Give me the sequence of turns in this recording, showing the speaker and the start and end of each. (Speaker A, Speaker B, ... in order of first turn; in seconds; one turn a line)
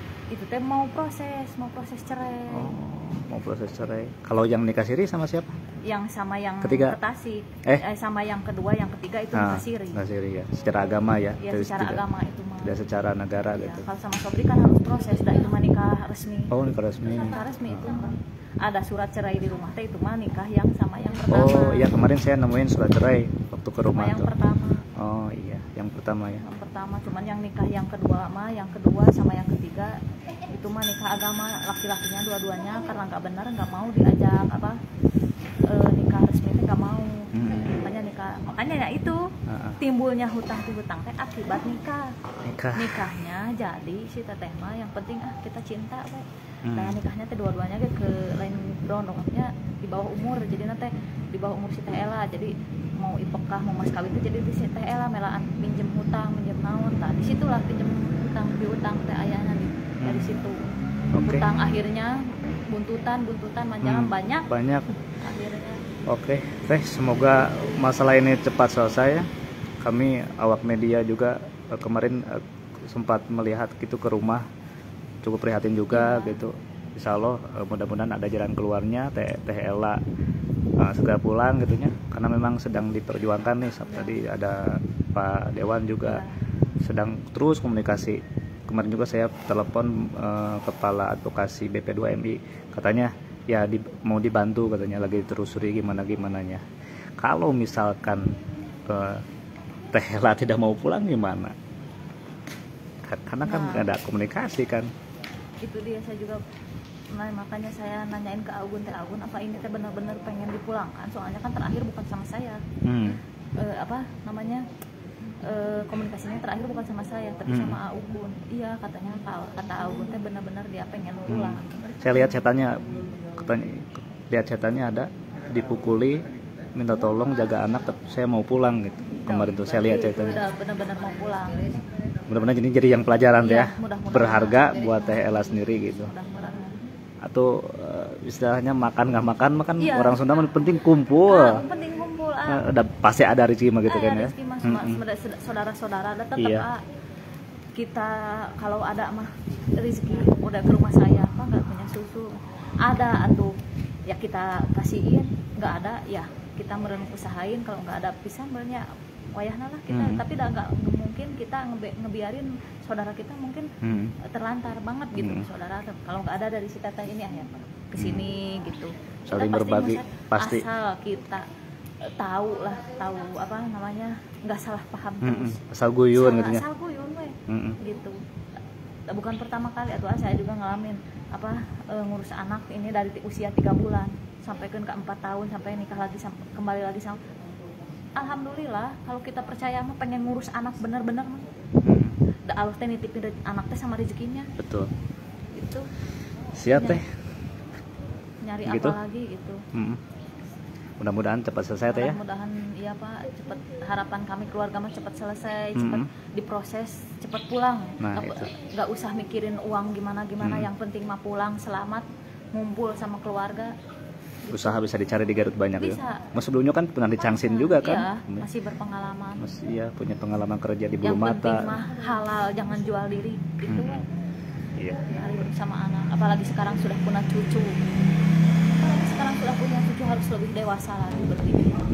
Speaker A: 0.3-2.7
Speaker B: 2.5-5.5
Speaker A: 5.8-10.0
Speaker B: 6.6-7.0
Speaker B: 9.3-12.0
Speaker A: 11.4-12.8
Speaker B: 12.6-13.8
Speaker A: 13.5-16.5
Speaker B: 16.5-18.0
Speaker A: 17.1-21.9
Speaker B: 21.3-24.3
Speaker A: 23.9-24.8
Speaker B: 24.9-26.4
Speaker A: 26.4-29.9
Speaker A: 30.5-34.8
Speaker A: 35.7-42.1
Speaker B: 37.3-37.7
Speaker B: 39.5-39.8
Speaker B: 42.4-42.9
Speaker A: 42.7-60.6
Speaker B: 46.6-47.0
Speaker B: 60.0-60.3
Speaker B: 61.1-61.5
Speaker A: 61.2-65.8
Speaker B: 63.8-64.9
Speaker B: 66.1-69.3
Speaker B: 69.8-74.5
Speaker B: 75.2-80.0
Speaker A: 75.9-76.4
Speaker B: 80.8-86.2
Speaker A: 83.9-84.2
Speaker A: 86.0-86.3
Speaker B: 86.8-96.6
Speaker B: 97.2-99.2
Speaker B: 99.9-101.5
Speaker B: 103.0-104.9
Speaker A: 103.4-103.9
Speaker A: 105.6-106.4
Speaker A: 107.1-114.6
Speaker B: 112.8-113.2
Speaker A: 115.4-121.8
Speaker B: 117.5-117.8
Speaker B: 121.3-126.2
Speaker B: 126.7-130.4
Speaker A: 129.2-131.7
Speaker B: 132.3-136.1
Speaker A: 133.4-135.3
Speaker A: 136.0-136.8
Speaker B: 137.2-141.6
Speaker A: 139.8-140.3
Speaker A: 141.2-142.6
Speaker B: 142.5-145.0
Speaker A: 143.8-146.8
Speaker B: 146.4-146.7
Speaker A: 147.8-152.3
Speaker A: 152.8-153.5
Speaker A: 154.1-163.7
Speaker B: 159.9-160.2
Speaker B: 163.8-164.1
Speaker A: 164.2-171.4
Speaker B: 165.2-165.5
Speaker B: 168.0-168.2
Speaker B: 169.3-170.6
Speaker A: 172.1-178.2
Speaker B: 175.2-176.6
Speaker B: 177.5-177.8
Speaker A: 179.1-187.2
Speaker A: 188.2-191.5
Speaker B: 191.8-192.2
Speaker A: 192.5-194.5
Speaker B: 194.6-194.9
Speaker A: 195.5-195.9
Speaker B: 196.6-197.1
Speaker A: 196.7-197.0
Speaker A: 198.4-199.6
Speaker B: 198.6-199.0
Speaker B: 199.7-200.0
Speaker B: 201.0-202.2
Speaker A: 201.9-213.7
Speaker B: 205.7-206.1
Speaker B: 208.0-208.5
Speaker B: 210.4-210.7
Speaker A: 214.4-214.8
Speaker B: 214.5-218.4
Speaker A: 215.8-216.3
Speaker A: 217.2-219.4
Speaker B: 219.4-221.7
Speaker A: 221.0-224.1
Speaker B: 223.7-224.0
Speaker B: 224.8-225.0
Speaker A: 225.1-227.8
Speaker A: 228.7-231.8